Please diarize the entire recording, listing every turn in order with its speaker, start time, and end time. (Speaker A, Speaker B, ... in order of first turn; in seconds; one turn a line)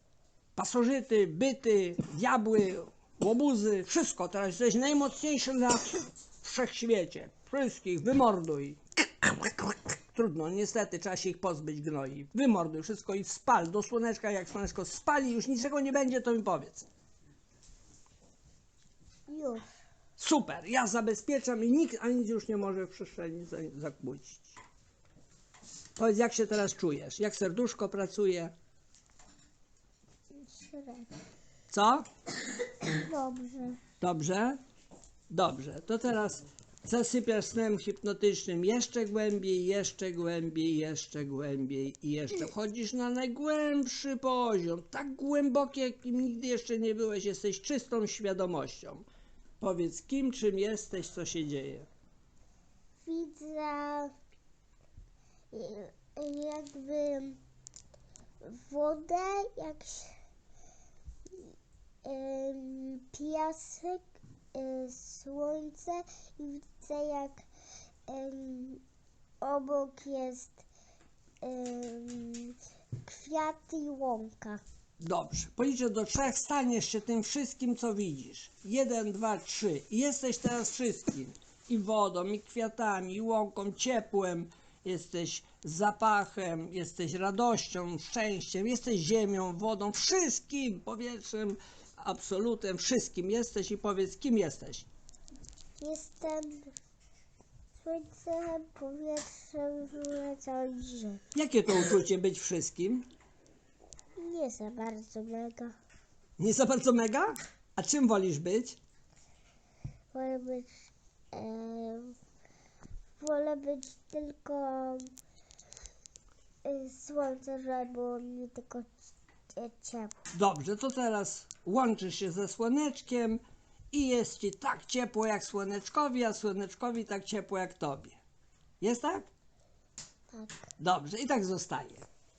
Speaker A: 0.6-16.9
Speaker B: 19.3-19.6
Speaker A: 20.2-24.6
Speaker A: 25.9-28.5
Speaker B: 30.3-31.1
Speaker A: 31.7-32.0
Speaker B: 33.0-33.8
Speaker A: 34.0-34.6
Speaker A: 35.3-49.0
Speaker A: 49.6-51.9
Speaker B: 53.0-54.1
Speaker B: 55.5-57.4
Speaker B: 58.4-60.2
Speaker B: 62.0-67.5
Speaker B: 68.1-68.8
Speaker B: 69.4-70.6
Speaker B: 71.4-74.6
Speaker A: 75.0-94.9
Speaker B: 95.8-96.7
Speaker B: 97.8-101.2
Speaker A: 101.3-103.0
Speaker B: 104.2-105.7
Speaker A: 106.4-108.8
Speaker B: 110.1-112.2
Speaker B: 113.2-115.1
Speaker B: 116.6-120.1
Speaker A: 120.3-128.2
Speaker A: 128.8-129.3
Speaker B: 130.3-130.7
Speaker A: 130.8-132.1